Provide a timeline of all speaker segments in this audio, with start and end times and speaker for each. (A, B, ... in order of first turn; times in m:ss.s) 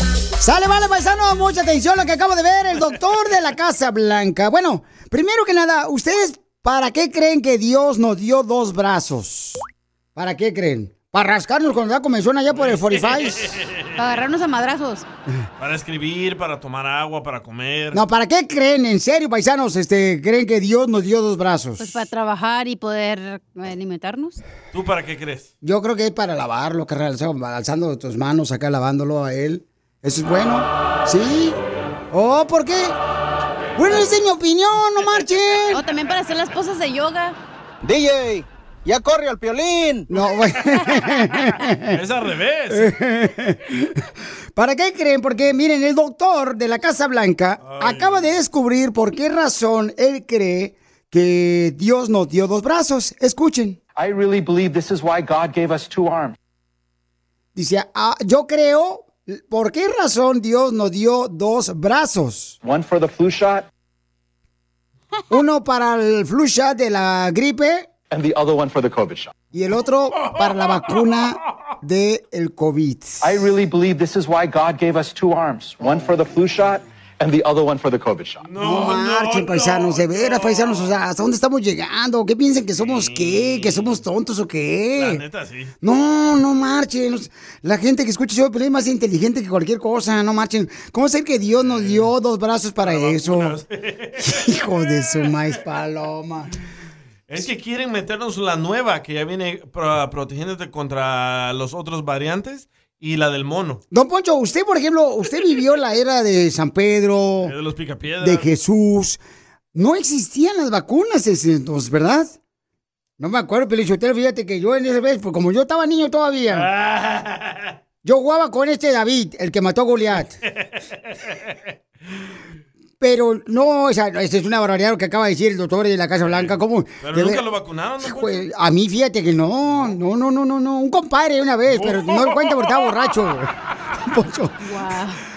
0:00.4-0:09.6 A
0:10.2-0:13.5 A
0:12.5-0:14.0 B
0:14.0-0:15.0 C
0:15.6-0:18.0 B
0:17.9-0:22.1 A
0:21.8-0:24.4 C
0:24.7-0:25.5 B
0:25.6-0:31.6 A
0:32.1-0:33.0 A
0:33.8-0:35.8 A
0:35.7-0:37.4 C
0:37.9-0:40.0 D
0:40.1-0:42.0 A
0:41.9-0:42.9 B
0:42.7-0:44.0 A
0:44.6-0:53.8 A
0:47.6-0:48.3 B
0:54.0-0:56.4 E
0:57.6-1:02.6 A
1:02.6-1:03.7 E
1:05.3-1:07.9 A
1:08.1-1:09.3 E
1:09.5-1:13.3 A
1:10.2-1:11.0 B
1:13.2-1:18.5 E
1:18.4-1:21.0 B
1:18.6-1:25.2 A
1:22.8-1:24.0 B
1:25.0-1:25.7 B
1:25.8-1:33.6 A
1:31.6-1:32.1 B
1:32.8-1:34.5 B
1:34.2-1:36.5 A
1:37.3-1:43.8 B
1:43.9-1:47.5 A
1:47.4-1:48.5 B
1:48.2-1:49.2 A
1:49.7-1:52.4 A
1:53.2-1:56.7 A
1:56.5-1:57.7 B
1:58.0-2:00.4 A
2:03.0-2:07.4 A
2:06.3-2:08.4 B
2:08.0-2:14.6 A
2:11.7-2:12.9 B
2:14.6-2:15.2 C